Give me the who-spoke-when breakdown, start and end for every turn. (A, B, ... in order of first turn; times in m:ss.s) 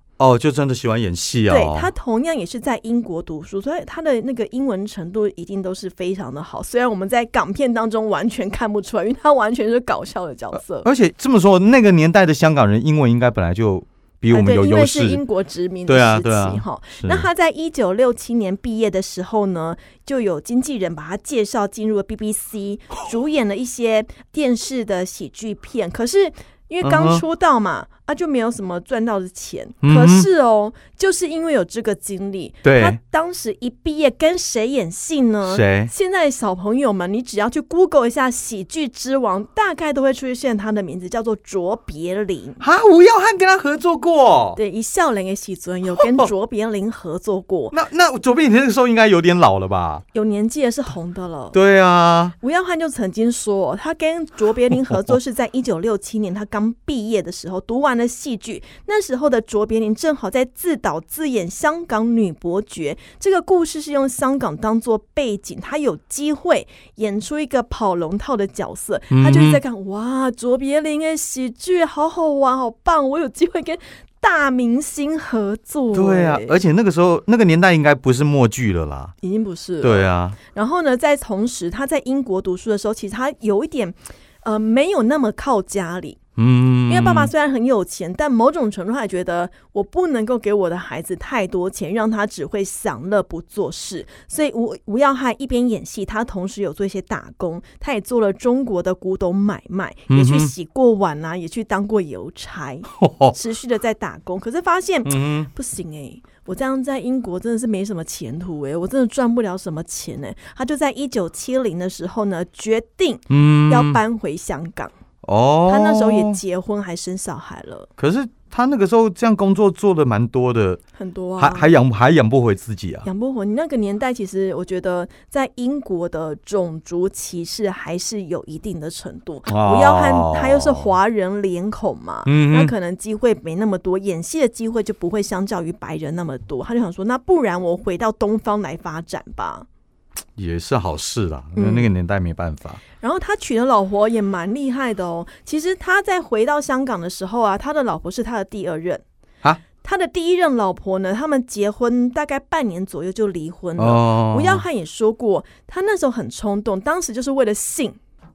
0:00.2-0:01.9 A
0:01.5-0:10.9 B
0:10.8-0:15.2 A
0:14.3-0:42.6 B
0:15.9-0:17.2 A
0:26.8-0:27.2 A
0:29.8-0:30.3 A
0:32.6-0:33.0 A
0:35.5-0:35.9 A
0:42.6-0:44.6 A
0:44.6-0:47.7 B
0:46.0-0:46.3 A
0:47.7-0:50.0 A
0:50.1-0:51.5 B
0:51.5-0:52.3 A
0:52.4-1:16.5 B
1:09.1-1:09.6 A
1:15.9-1:19.1 A
1:19.2-1:26.2 B
1:19.8-1:20.4 A
1:26.4-1:27.3 A
1:26.9-1:54.9 B
1:40.1-1:40.5 A
1:42.9-1:43.4 A
1:45.0-1:45.5 A
1:53.3-1:54.0 A
1:55.2-1:56.4 A
1:55.7-1:57.9 B
1:58.0-2:00.8 A
2:01.0-2:01.7 B
2:01.4-2:03.1 A
2:03.0-2:19.7 B
2:09.5-2:10.9 A
2:12.2-2:12.7 A
2:20.4-2:22.8 A
2:21.6-2:21.9 B
2:23.0-2:29.0 B
2:29.8-2:38.0 B
2:33.8-2:34.6 A